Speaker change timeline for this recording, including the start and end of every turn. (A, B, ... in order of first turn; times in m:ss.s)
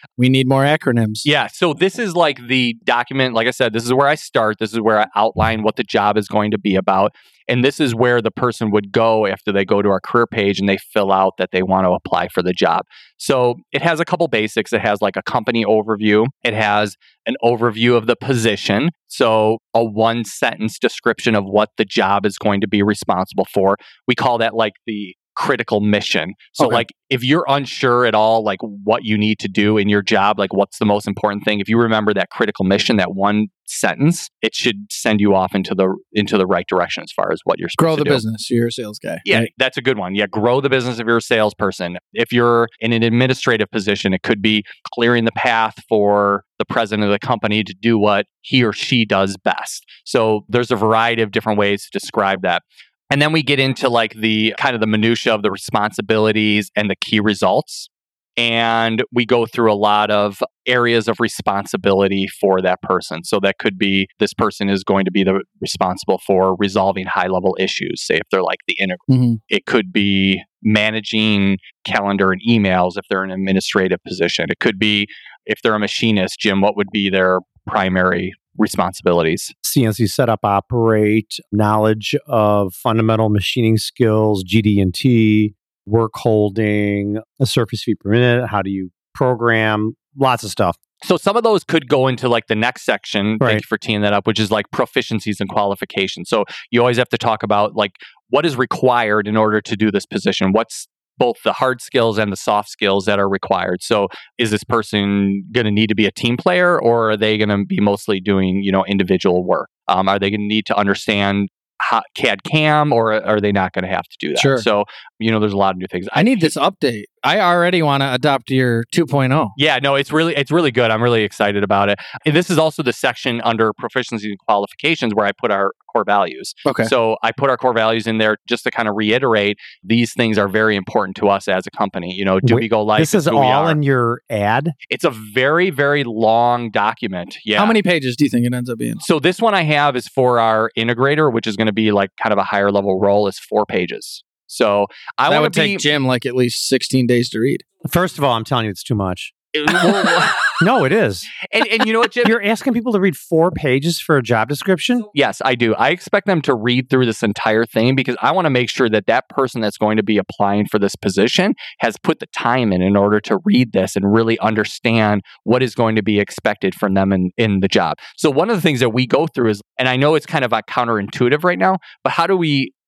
0:00.2-0:01.3 A
0:01.2-0:38.2 B
0:37.8-0:39.5 A
0:39.3-1:19.5 B
1:09.1-1:09.4 A
1:19.6-1:30.8 C
1:31.0-1:56.5 B
1:54.4-1:54.7 A
1:56.2-1:59.6 A
1:59.6-2:13.8 B
2:06.6-2:06.9 A
2:12.4-2:14.7 C
2:14.9-2:17.8 B
2:17.6-2:19.0 A
2:19.0-2:25.9 B
2:25.3-2:27.7 A
2:27.8-2:29.3 C
2:29.6-2:30.4 B
2:30.6-2:31.3 C
2:31.4-2:32.4 B
2:32.2-2:35.1 C
2:35.1-2:52.7 B